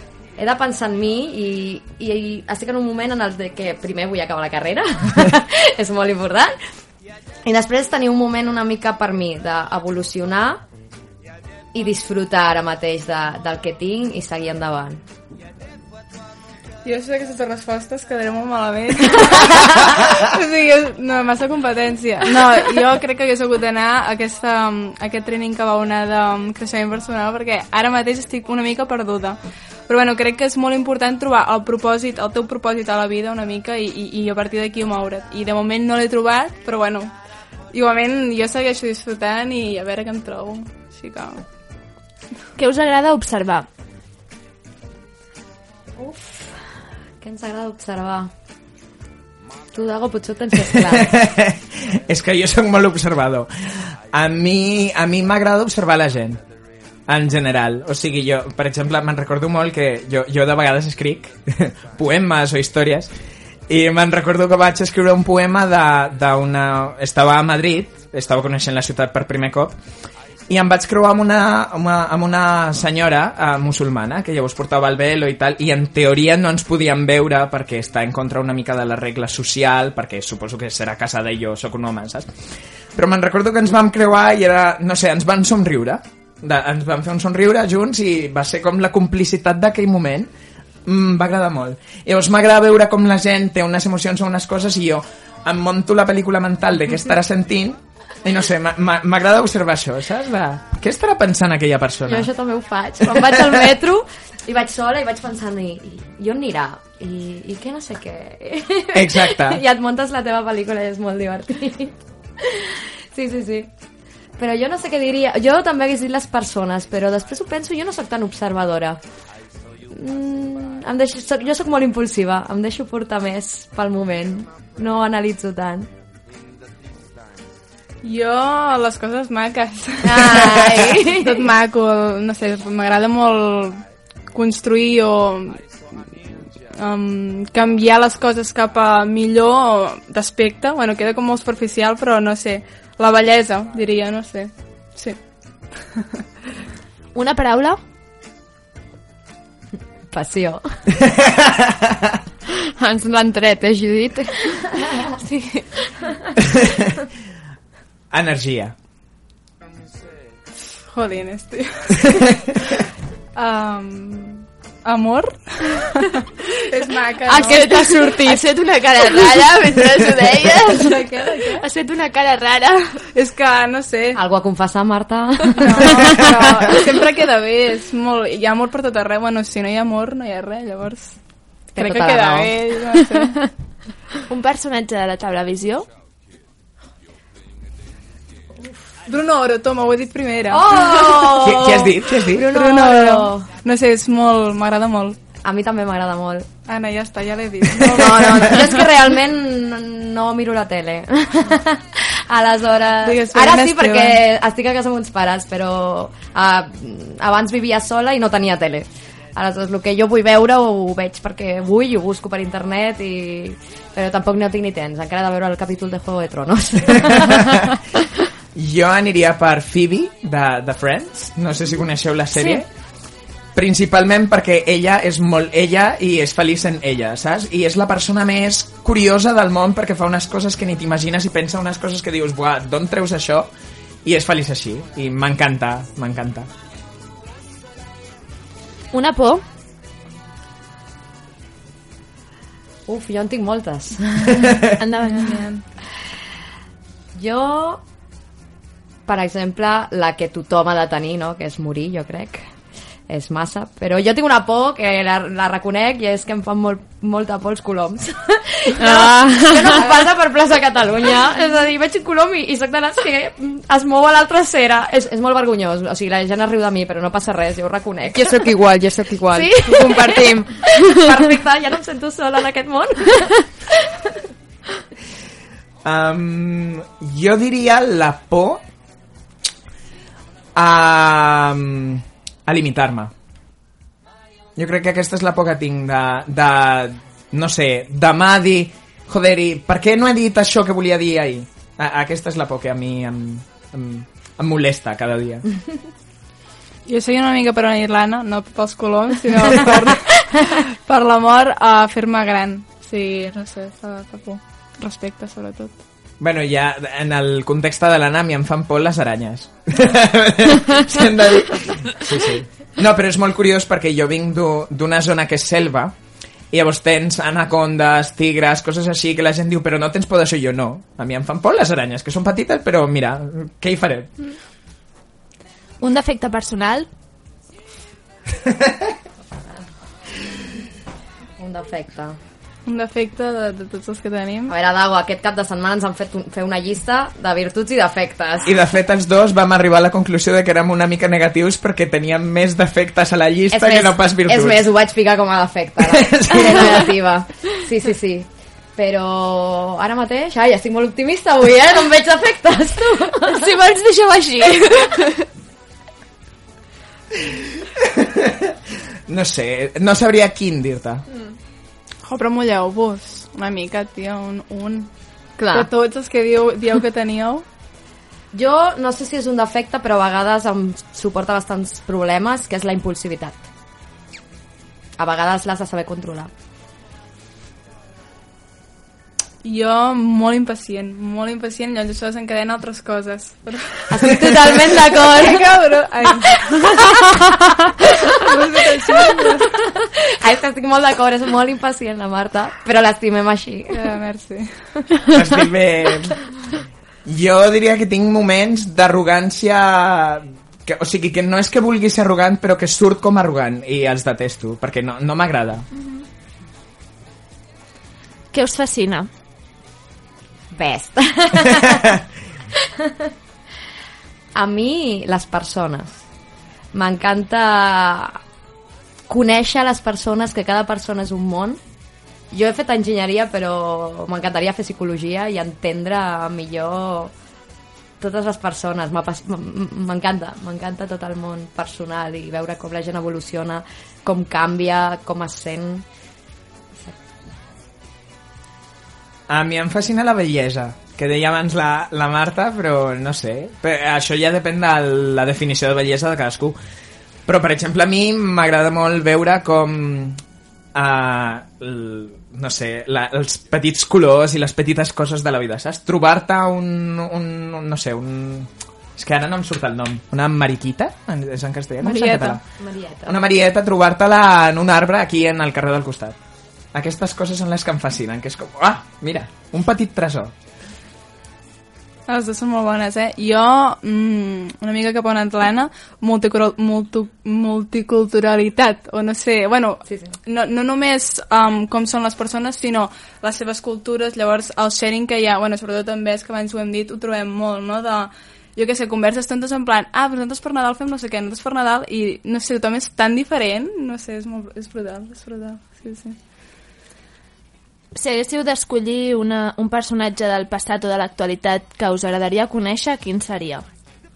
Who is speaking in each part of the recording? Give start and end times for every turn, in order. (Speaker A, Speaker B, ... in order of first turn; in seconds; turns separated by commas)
Speaker A: 0.4-6.6, Speaker A: 7.4-10.6, Speaker A: 11.7-15.0, Speaker B: 16.8-37.1, Speaker B: 37.7-41.4, Speaker C: 42.5-43.7, Speaker A: 46.0-46.5, Speaker A: 47.2-48.3, Speaker A: 49.7-51.2, Speaker D: 50.8-56.4, Speaker D: 57.1-63.1, Speaker D: 63.7-69.8, Speaker D: 70.5-82.3, Speaker D: 82.9-90.3, Speaker D: 90.8-102.3, Speaker A: 102.1-113.7, Speaker D: 103.1-103.6, Speaker D: 108.9-109.6, Speaker A: 114.4-119.0, Speaker A: 119.9-125.9, Speaker B: 128.0-135.6, Speaker A: 130.0-131.4, Speaker B: 136.8-145.2, Speaker C: 147.1-147.8, Speaker A: 150.1-150.8, Speaker D: 151.0-152.2, Speaker E: 152.5-154.8, Speaker C: 155.2-155.8, Speaker D: 156.4-156.9, Speaker D: 158.1-158.7, Speaker B: 160.9-162.3, Speaker B: 163.3-167.7, Speaker E: 167.3-168.4, Speaker C: 167.3-173.0, Speaker B: 170.7-171.6, Speaker B: 173.1-174.2, Speaker A: 174.1-176.3, Speaker B: 175.6-181.2, Speaker A: 181.7-182.6, Speaker B: 181.8-183.5, Speaker C: 184.3-185.9, Speaker B: 189.1-191.1, Speaker A: 190.5-193.5, Speaker D: 191.3-192.5, Speaker B: 192.4-195.2, Speaker A: 195.4-196.5, Speaker B: 196.7-198.7, Speaker A: 197.8-217.7, Speaker B: 203.0-204.2, Speaker D: 217.3-217.6, Speaker D: 218.5-222.7, Speaker C: 222.4-222.6, Speaker D: 223.5-233.5, Speaker D: 234.0-236.5, Speaker C: 238.9-239.4, Speaker A: 242.9-244.6, Speaker C: 244.8-245.6, Speaker A: 247.2-247.8, Speaker A: 249.1-252.4, Speaker A: 253.1-268.5, Speaker E: 258.8-259.9, Speaker E: 268.1-270.9, Speaker C: 269.3-270.3, Speaker A: 270.9-273.5, Speaker D: 275.8-278.6, Speaker D: 280.6-283.1, Speaker D: 284.6-295.4, Speaker B: 296.9-305.8, Speaker D: 306.2-315.9, Speaker D: 316.5-324.1, Speaker C: 325.8-326.9, Speaker A: 329.4-329.6, Speaker A: 331.4-332.2, Speaker B: 332.6-334.5, Speaker A: 334.5-338.5, Speaker D: 338.4-344.6, Speaker A: 343.5-353.5, Speaker D: 345.8-346.8, Speaker C: 353.3-355.3, Speaker D: 357.1-361.0, Speaker B: 362.0-364.9, Speaker B: 365.5-367.4, Speaker A: 368.3-373.4, Speaker A: 375.0-376.3, Speaker B: 379.4-383.9, Speaker A: 383.9-385.5, Speaker B: 384.9-386.9, Speaker B: 388.1-389.6, Speaker A: 389.8-393.8, Speaker B: 393.7-394.8, Speaker D: 395.1-396.3, Speaker D: 397.0-405.7, Speaker C: 408.3-409.1, Speaker A: 410.5-412.0, Speaker A: 412.8-413.1, Speaker A: 414.4-416.0, Speaker A: 416.7-418.2, Speaker A: 419.1-421.6, Speaker A: 422.3-427.1, Speaker A: 428.0-435.9, Speaker D: 439.3-446.6, Speaker D: 447.2-450.2, Speaker D: 450.7-462.4, Speaker C: 461.9-462.3, Speaker A: 462.6-463.1, Speaker D: 463.0-466.2, Speaker D: 466.7-470.3, Speaker B: 472.1-496.2, Speaker A: 479.9-480.1, Speaker C: 497.9-503.6